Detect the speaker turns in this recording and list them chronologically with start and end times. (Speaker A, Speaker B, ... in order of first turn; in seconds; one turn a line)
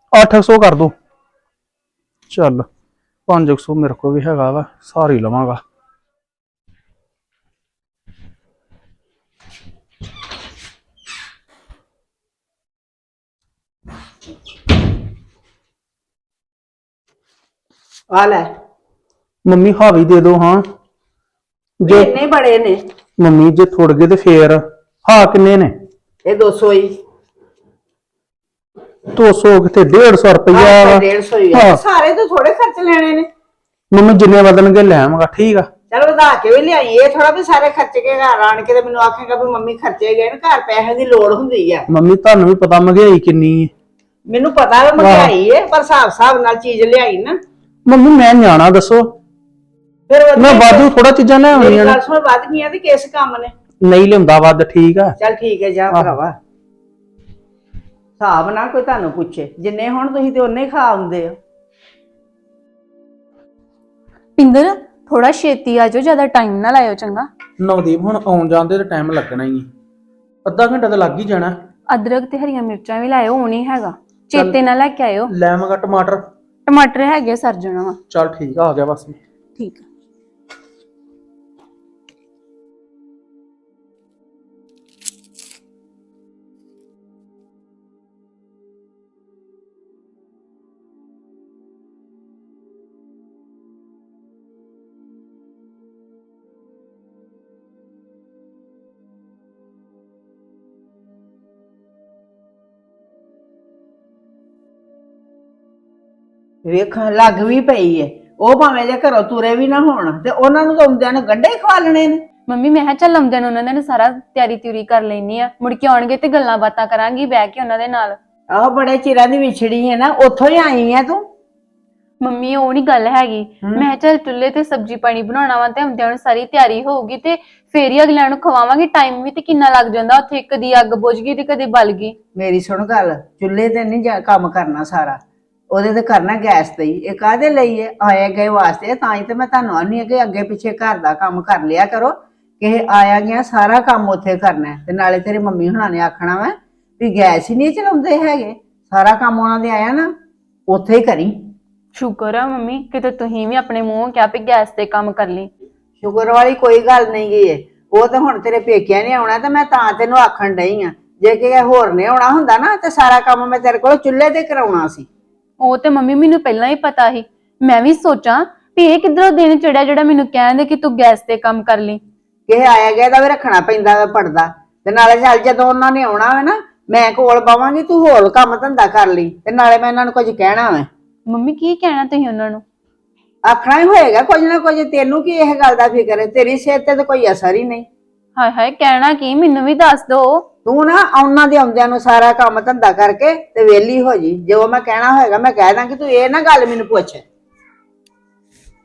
Speaker A: 0.1-0.9
Speaker A: 2.3-2.7
Speaker A: 3.3-5.6
Speaker B: 18.1-18.5
Speaker A: 19.4-20.6
Speaker A: 21.8-22.1
Speaker B: 21.9-22.8
Speaker A: 23.2-25.7
Speaker B: 26.3-26.9
Speaker A: 29.1-31.8
Speaker B: 30.5-33.3
Speaker A: 33.9-35.7
Speaker B: 35.9-41.9
Speaker A: 41.9-43.7
Speaker B: 44.3-47.4
Speaker A: 45.0-45.3
Speaker A: 47.9-49.1
Speaker B: 50.1-50.9
Speaker A: 50.4-52.0
Speaker B: 51.5-53.5
Speaker A: 53.8-55.1
Speaker B: 55.2-56.4
Speaker B: 58.2-61.4
Speaker C: 64.4-67.3
Speaker A: 67.6-69.7
Speaker A: 70.5-71.5
Speaker C: 71.9-75.3
Speaker A: 75.3-76.2
Speaker C: 76.7-78.0
Speaker A: 78.1-79.2
Speaker C: 79.6-79.9
Speaker B: 106.7-112.2
Speaker C: 112.5-118.2
Speaker B: 118.5-121.2
Speaker C: 122.2-132.2
Speaker B: 132.3-135.2
Speaker B: 135.7-150.1
Speaker B: 150.7-151.4
Speaker C: 151.9-155.5
Speaker B: 156.0-165.1
Speaker C: 165.6-172.0
Speaker B: 172.5-180.9
Speaker C: 181.3-182.6
Speaker B: 183.5-187.9
Speaker C: 188.4-190.5
Speaker B: 190.7-197.2